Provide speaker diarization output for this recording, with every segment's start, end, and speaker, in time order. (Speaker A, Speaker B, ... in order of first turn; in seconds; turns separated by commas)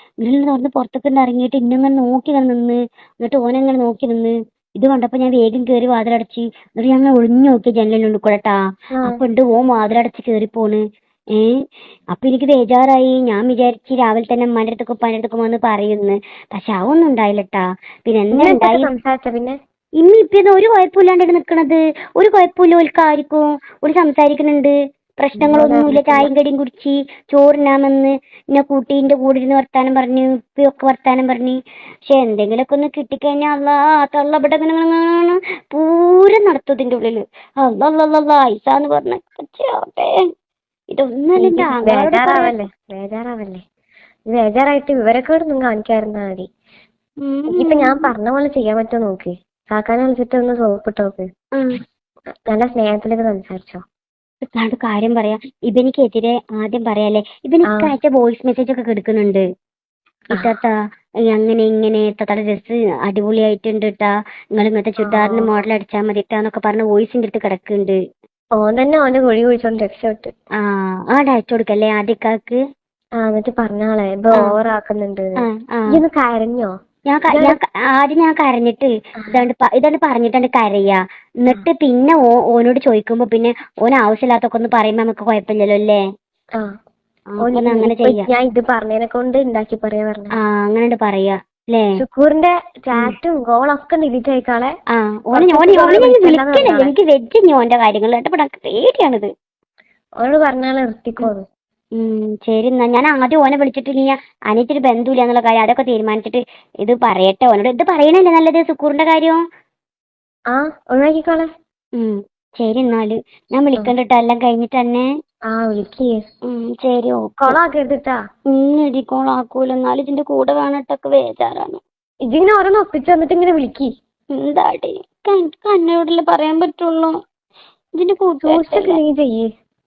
Speaker A: 0.2-8.6, Speaker A: 9.1-10.8, Speaker A: 12.1-18.9, Speaker B: 18.3-19.6, Speaker A: 20.0-40.1, Speaker B: 25.4-26.3, Speaker A: 40.9-42.5, Speaker B: 41.4-43.6, Speaker B: 44.3-46.5, Speaker A: 47.2-48.1, Speaker B: 47.5-51.3, Speaker B: 52.5-53.8, Speaker A: 54.5-59.4, Speaker A: 60.4-60.7, Speaker A: 61.3-68.0, Speaker B: 65.0-65.6, Speaker B: 68.6-70.3, Speaker A: 71.1-72.6, Speaker B: 73.2-75.4, Speaker A: 75.4-76.0, Speaker B: 75.9-76.7, Speaker A: 77.1-86.0, Speaker B: 77.3-77.6, Speaker A: 87.3-88.3, Speaker B: 87.4-90.3, Speaker A: 90.4-91.9, Speaker B: 92.0-94.7, Speaker A: 94.9-99.3, Speaker B: 95.3-96.9, Speaker B: 100.2-101.5, Speaker A: 102.0-109.4, Speaker B: 110.5-111.5, Speaker A: 112.0-115.0, Speaker B: 115.5-116.2, Speaker A: 116.5-117.6, Speaker B: 117.4-118.2, Speaker A: 118.5-121.8, Speaker B: 122.2-123.9, Speaker A: 124.3-127.2, Speaker A: 128.0-129.0, Speaker B: 128.4-129.5